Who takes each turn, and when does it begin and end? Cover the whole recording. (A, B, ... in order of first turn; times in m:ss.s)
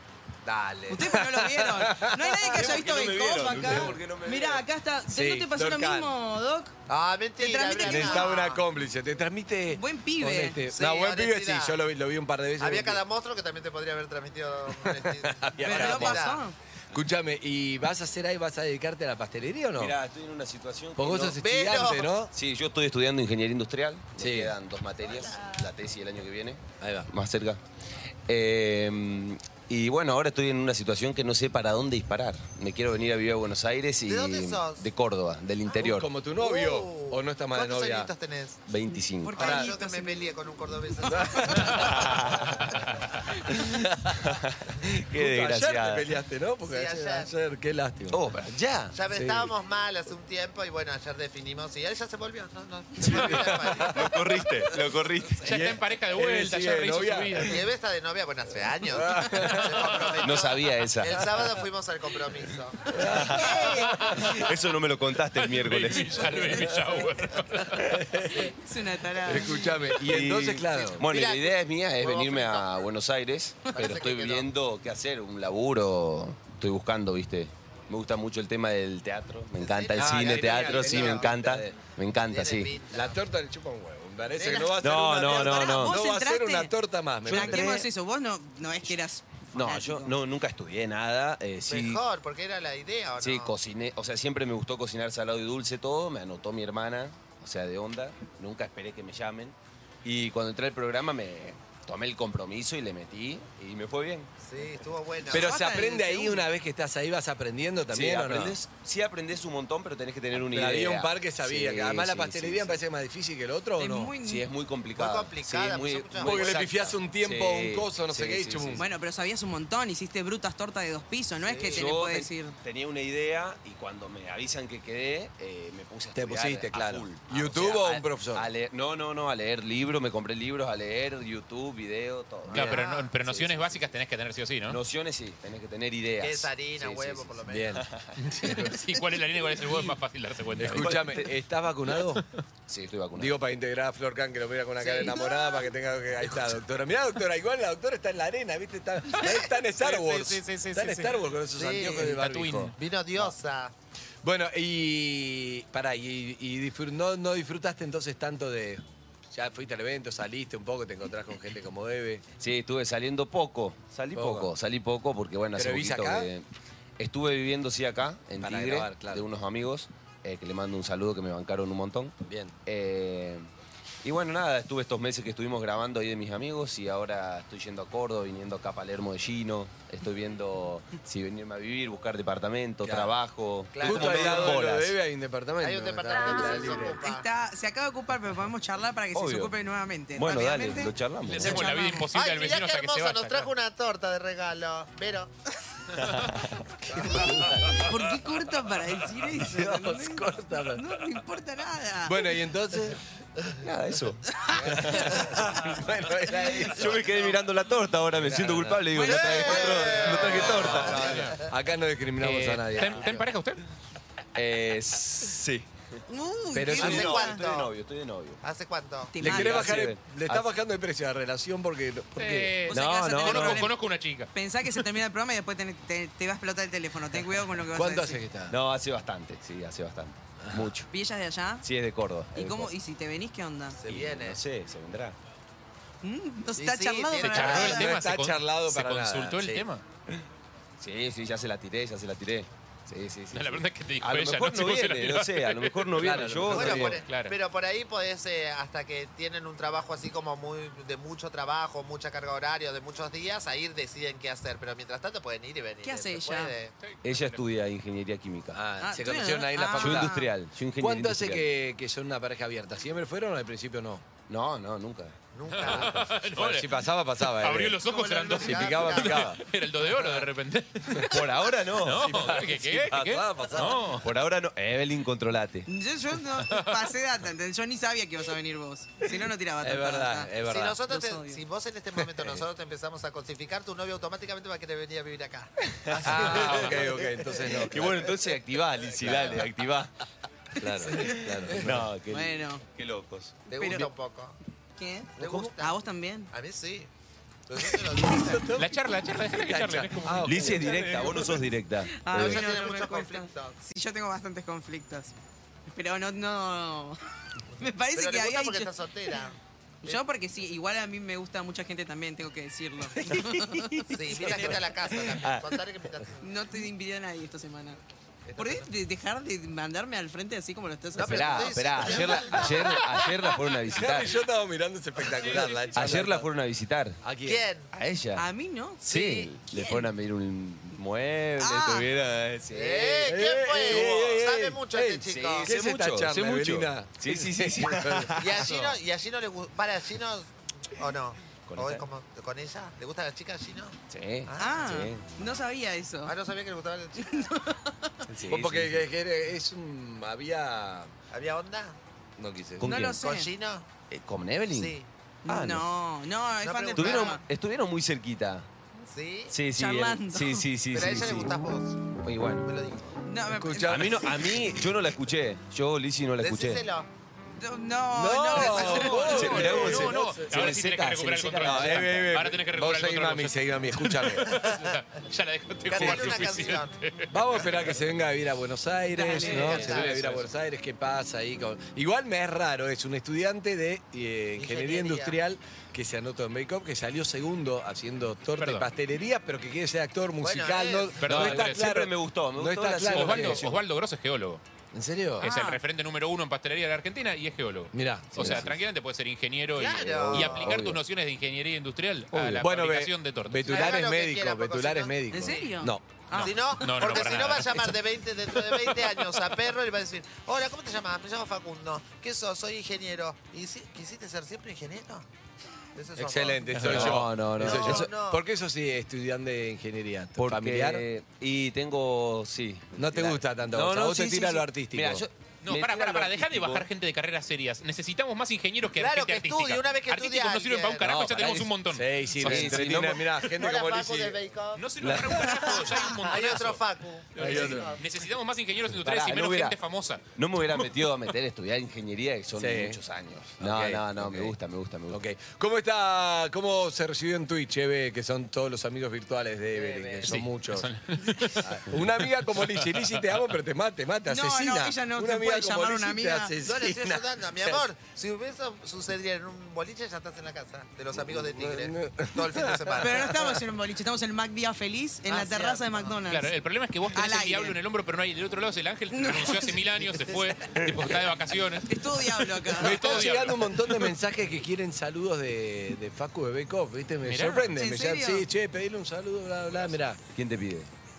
0:00.4-0:02.7 A
0:00.9-0:06.7 B
0:02.5-0:04.7 C
0:03.4-0:04.0 A
0:05.1-0:06.1 A
0:06.9-0:08.6 D
0:07.4-0:08.4 B
0:07.8-0:13.0 A
0:09.7-0:10.6 B
0:10.7-0:11.8 D
0:12.6-0:16.4 D
0:14.8-0:16.2 A
0:15.6-0:16.6 B
0:16.9-0:20.0 A
0:19.7-0:21.4 C
0:21.0-0:22.3 A
0:21.3-0:22.1 D
0:22.3-0:27.6 C
0:24.2-0:24.5 A
0:26.8-0:27.1 A
0:28.3-0:36.1 C
0:34.0-0:34.9 D
0:35.8-0:38.1 A
0:36.4-0:38.6 D
0:38.7-0:39.5 C
0:38.9-0:40.3 B
0:39.3-0:41.9 D
0:39.4-0:39.7 A
0:41.1-0:42.0 A
0:41.2-0:42.1 B
0:41.6-0:42.8 C
0:43.5-0:46.1 C
0:43.8-0:44.2 A
0:45.1-0:48.2 A
0:46.6-0:47.3 D
0:48.1-0:49.0 C
0:48.9-0:54.4 D
0:49.1-0:49.5 A
0:53.0-0:55.5 C
0:53.0-0:54.1 A
0:53.2-0:53.6 E
0:55.4-0:57.6 A
0:55.4-0:57.6 E
0:57.4-1:03.0 D
0:58.9-1:00.0 A
0:59.3-0:59.9 E
1:00.2-1:01.2 C
1:02.9-1:04.1 A
1:03.0-1:06.5 C
1:03.2-1:04.2 B
1:03.8-1:04.4 E
1:05.3-1:07.9 E
1:07.8-1:08.5 A
1:08.1-1:09.7 B
1:09.2-1:11.1 A
1:09.3-1:09.8 D
1:10.0-1:22.8 C
1:11.0-1:12.8 D
1:13.7-1:14.5 D
1:19.6-1:21.3 D
1:20.0-1:21.8 A
1:22.2-1:23.2 D
1:22.9-1:27.8 A
1:24.4-1:24.8 D
1:24.8-1:26.0 C
1:25.3-1:26.7 B
1:27.2-1:30.2 B
1:27.3-1:27.9 C
1:29.5-1:32.0 C
1:31.6-1:33.6 D
1:33.2-1:44.8 C
1:44.4-1:45.5 D
1:45.3-1:48.6 A
1:45.3-1:46.4 B
1:47.9-1:52.8 C
1:50.3-1:54.1 A
1:53.7-1:54.5 B
1:54.2-1:58.8 C
1:54.9-1:56.6 D
1:56.2-1:58.8 A
1:58.8-2:02.6 B
2:01.4-2:01.9 D
2:01.6-2:14.0 C
2:06.1-2:08.5 A
2:12.4-2:13.1 D
2:12.5-2:12.8 A
2:12.5-2:14.8 E
2:14.7-2:18.2 C
2:16.2-2:17.8 D
2:17.5-2:18.8 A
2:18.2-2:20.9 E
2:20.6-2:22.2 A
2:20.7-2:21.3 C
2:22.2-2:22.4 E
2:22.7-2:23.4 C
2:23.1-2:33.3 A
2:24.8-2:25.2 D
2:29.8-2:32.7 E
2:31.6-2:32.2 D
2:32.7-2:33.7 D
2:34.2-2:42.2 A
2:42.4-2:46.5 C
2:44.1-2:44.5 A
2:45.5-2:46.3 A
2:47.0-2:52.1 C
2:48.4-2:49.3 A
2:52.3-2:52.5 A
2:52.6-2:53.5 C
2:54.0-3:04.9 C
3:02.8-3:03.2 A
3:03.7-3:04.6 D
3:03.8-3:07.0 A
3:05.6-3:07.2 D
3:07.0-3:12.1 B
3:09.1-3:09.5 C
3:10.2-3:11.7 C
3:11.3-3:13.5 E
3:12.1-3:15.3 D
3:16.0-3:17.9 C
3:16.9-3:17.6 D
3:17.7-3:22.2 B
3:19.3-3:19.8 C
3:19.7-3:20.9 A
3:22.0-3:23.0 A
3:23.6-3:25.7 C
3:24.4-3:24.7 B
3:24.6-3:27.1 A
3:26.6-3:31.3 C
3:28.1-3:33.1 A
3:29.0-3:30.6 B
3:29.0-3:31.3 D
3:30.6-3:31.4 E
3:32.2-3:33.6 E
3:32.8-3:33.3 C
3:34.3-3:36.0 C
3:36.1-3:37.4 B
3:36.5-3:37.4 A
3:36.7-3:38.4 C
3:36.7-3:37.7 D
3:38.4-3:39.2 D
3:39.1-3:39.7 B
3:39.2-3:42.6 A
3:39.2-3:40.5 C
3:42.2-3:44.8 E
3:42.6-3:43.8 B
3:42.7-3:43.6 C
3:44.3-3:48.2 B
3:47.7-3:48.5 A
3:48.5-3:50.9 C
3:50.4-3:50.7 A
3:50.9-3:51.6 B
3:51.6-3:52.7 C
3:52.3-3:53.8 B
3:53.8-3:54.4 D
3:53.8-3:55.2 C
3:56.0-3:58.0 B
3:56.6-3:57.9 D
3:57.3-3:59.8 E
3:57.3-3:59.7 A
4:00.8-4:07.0 C
4:03.3-4:06.3 E
4:06.0-4:07.0 A
4:06.4-4:16.7 D
4:07.0-4:07.4 E
4:15.8-4:16.5 B
4:16.8-4:17.5 E
4:17.0-4:18.6 C
4:18.5-4:20.2 A
4:18.8-4:20.3 B
4:19.8-4:21.5 C
4:20.8-4:24.0 A
4:24.3-4:25.2 C
4:25.3-4:26.0 D
4:25.5-4:31.2 E
4:26.1-4:30.3 A
4:27.8-4:29.4 D
4:31.0-4:32.1 C
4:31.8-4:34.1 E
4:32.0-4:33.8 A
4:33.6-4:35.7 C
4:35.6-4:40.3 B
4:36.4-4:36.8 E
4:39.6-4:40.8 A
4:40.4-4:47.4 D
4:40.9-4:41.4 B
4:42.0-4:42.4 A
4:45.7-4:46.2 C
4:46.0-4:48.1 A
4:46.2-4:46.8 E
4:47.7-4:49.9 C
4:49.0-4:49.5 A
4:50.6-4:51.9 A
4:51.0-4:53.5 C
4:52.1-4:52.6 B
4:53.4-4:54.4 D
4:53.5-4:53.9 B
4:54.8-4:56.3 B
4:55.2-4:56.9 D
4:55.2-4:55.5 C
4:57.5-4:58.5 D
4:57.5-4:58.8 A
4:58.5-5:00.4 E
4:59.3-5:01.5 A
5:00.2-5:02.5 C
5:01.9-5:05.1 B
5:02.1-5:03.6 D
5:05.7-5:07.0 B
5:07.5-5:10.0 D
5:07.6-5:08.7 B
5:09.8-5:15.0 B
5:13.2-5:14.5 A
5:13.9-5:16.2 D
5:15.2-5:15.6 C
5:16.2-5:17.8 B
5:18.3-5:18.6 D
5:18.4-5:22.4 B
5:20.9-5:22.7 D
5:21.0-5:24.2 C
5:22.1-5:22.8 A
5:23.7-5:26.3 A
5:25.2-5:25.7 E
5:25.7-5:27.0 C
5:27.0-5:27.4 A
5:27.2-5:27.7 D
5:27.7-5:28.2 C
5:28.2-5:28.8 B
5:28.8-5:29.3 D
5:28.8-5:33.2 C
5:29.5-5:29.9 B
5:31.4-5:31.9 B
5:32.5-5:35.5 D
5:33.0-5:38.2 A
5:35.0-5:38.8 C
5:38.2-5:44.8 D
5:41.5-5:41.9 C
5:43.9-5:45.0 C
5:44.4-5:46.1 B
5:46.0-5:47.3 D
5:47.0-5:48.0 B
5:48.0-5:48.9 C
5:48.3-5:50.9 A
5:51.1-5:51.8 D
5:52.2-5:52.7 A
5:52.6-5:53.0 C
5:52.6-5:53.3 B
5:52.9-5:53.7 D
5:53.9-5:54.7 C
5:54.5-5:54.9 D
5:55.2-5:55.7 C
5:55.2-5:57.2 B
5:56.4-5:57.2 D
5:56.7-5:58.5 C
5:58.9-5:59.4 D
5:59.3-6:01.3 C
5:59.6-6:00.4 B
6:00.7-6:01.8 D
6:02.0-6:02.5 C
6:02.4-6:02.8 D
6:03.0-6:04.4 B
6:03.3-6:04.2 A
6:03.7-6:06.6 C
6:06.2-6:06.9 D
6:07.4-6:09.4 B
6:07.9-6:10.4 A
6:08.4-6:17.6 E
6:08.7-6:09.1 D
6:09.0-6:12.2 C
6:11.4-6:14.4 A
6:14.2-6:14.6 D
6:15.6-6:16.7 D
6:15.7-6:16.3 A
6:17.1-6:33.4 A
6:18.9-6:19.8 B
6:19.2-6:20.3 E
6:19.2-6:19.9 D
6:24.4-6:25.2 D
6:28.4-6:28.7 E
6:30.2-6:31.0 D
6:31.0-6:31.6 E
6:31.0-6:33.7 C
6:32.9-6:34.4 E
6:34.7-6:35.3 A
6:35.2-6:43.8 E
6:35.2-6:35.6 B
6:37.7-6:38.5 A
6:38.1-6:38.5 C
6:39.5-6:40.6 D
6:39.8-6:40.8 C
6:42.1-6:46.0 A
6:43.4-6:45.0 D
6:45.1-6:46.7 B
6:46.1-6:47.7 E
6:46.2-6:55.0 D
6:55.8-6:58.2 D
6:56.0-7:00.8 A
6:56.5-6:56.8 E
6:56.6-6:57.9 C
7:00.2-7:06.7 C
7:02.8-7:05.0 A
7:05.4-7:11.9 E
7:08.8-7:10.8 D
7:10.8-7:14.2 A
7:12.1-7:13.2 C
7:13.2-7:15.4 D
7:14.5-7:21.1 E
7:14.8-7:15.6 A
7:16.0-7:17.8 D
7:17.2-7:17.7 A
7:18.8-7:19.6 C
7:20.2-7:25.0 C
7:22.4-7:22.8 A
7:23.4-7:24.3 A
7:24.9-7:30.7 A
7:29.5-7:30.2 C
7:30.0-7:33.0 E
7:31.4-7:31.7 C
7:31.6-7:37.6 A
7:34.1-7:36.3 B
7:36.4-7:43.2 D
7:40.9-7:43.1 A
7:42.8-7:46.3 B
7:45.0-7:46.0 D
7:46.1-7:53.8 E
7:46.9-7:47.6 B
7:48.9-7:49.6 B
7:51.7-7:53.0 B
7:52.6-8:00.0 A
7:57.0-7:57.6 E
7:57.5-7:58.3 B
8:00.1-8:00.7 C